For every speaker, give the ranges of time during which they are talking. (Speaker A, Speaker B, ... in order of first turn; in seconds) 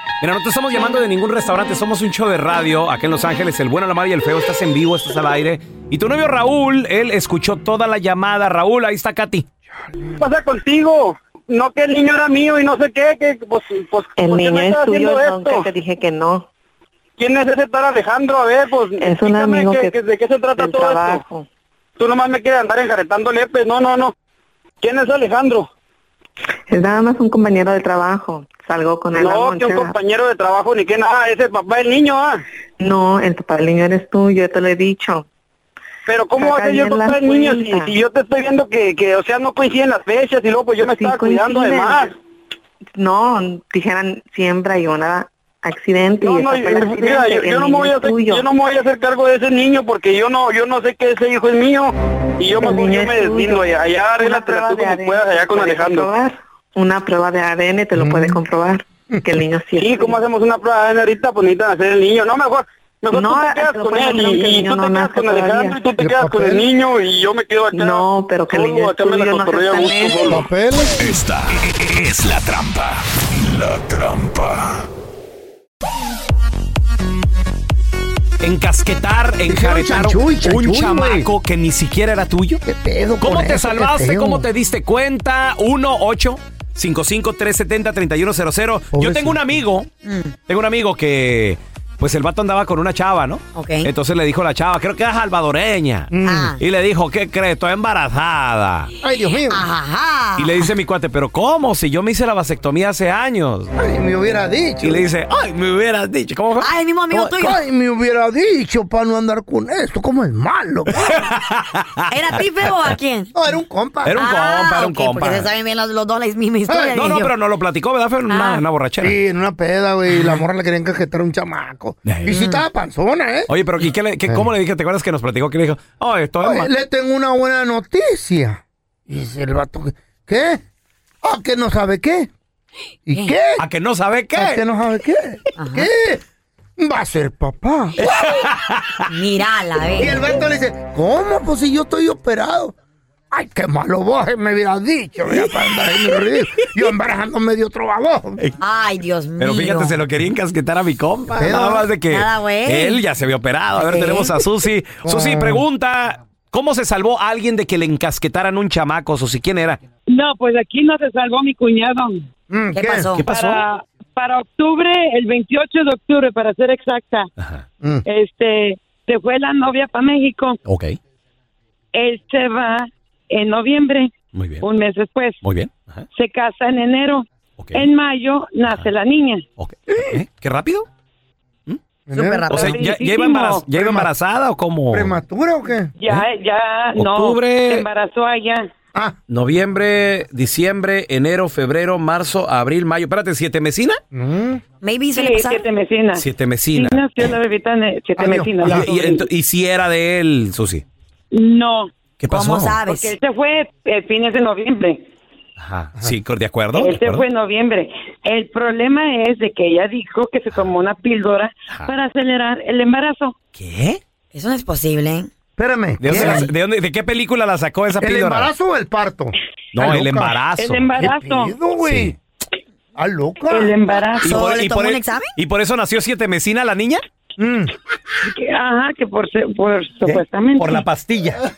Speaker A: 0.2-9.5, 78.4-82.6, 83.2-89.9, 90.5-98.9, 100.4-103.7, 104.8-107.3, 111.0-112.0, 114.1-115.5, 117.0-119.2, 122.1-122.4, 123.5-126.7, 133.6-134.6, 138.0-139.0, 149.4-159.8, 163.2-163.6, 170.7-171.0, 174.3-174.7, 175.4-176.1, 177.6-177.8, 179.6-180.9, 182.5-185.2, 187.0-187.9, 189.3-194.0, 196.2-197.1, 198.6-200.8, 202.2-202.8, 205.6-207.2, 213.6-214.0, 216.0-218.5, 219.7-220.9, 221.8-222.2, 224.2-227.0, 230.1-231.4
Speaker B: 10.2-15.7, 17.2-21.2, 22.0-24.1, 24.8-25.7, 29.2-32.4, 36.1-42.1, 46.2-56.1, 59.8-70.4
Speaker C: 14.2-16.5, 19.0-19.9, 20.6-21.5, 26.7-29.9, 32.8-35.3, 36.4-37.9, 40.9-42.1, 43.0-48.5, 52.6-60.2, 63.1-65.8, 67.7-70.4
Speaker D: 58.0-58.4, 66.0-66.7, 70.3-71.0, 79.5-81.3, 82.6-84.5, 88.9-89.5, 96.1-96.5, 99.0-99.6, 103.8-105.0, 107.3-111.2, 113.3-114.2, 116.7-117.0, 119.0-123.5, 126.4-130.6, 131.2-132.3, 133.1-133.6, 134.3-136.2, 136.8-138.0, 140.0-142.7, 143.3-148.4, 151.4-151.9, 155.0-155.6, 162.5-163.1, 179.9-180.2, 182.1-182.6, 183.7-184.1, 184.9-185.9, 194.1-194.6, 198.2-198.8, 215.6-216.5, 218.0-220.4, 221.0-222.2, 223.0-223.8, 227.4-227.7
Speaker E: 71.0-74.8
Speaker F: 90.0-90.4, 93.5-93.9, 96.2-96.6, 99.5-100.7, 106.6-107.6, 112.1-113.3, 114.2-117.3, 118.3-118.6, 120.1-120.4, 122.3-122.6, 135.6-135.9, 139.1-140.2, 148.6-150.0, 152.1-153.0, 153.8-154.4, 162.7-163.3, 182.1-182.8, 194.8-195.7, 202.3-203.2, 214.3-215.3, 216.1-216.4, 224.2-225.3
Speaker G: 160.1-162.2, 163.2-167.3, 168.1-170.6, 171.9-175.4, 176.1-179.4, 182.5-183.7, 186.0-188.7, 195.1-199.2, 201.3-201.9, 202.8-205.0, 206.7-213.3, 220.6-221.5, 223.5-224.3, 228.2-230.9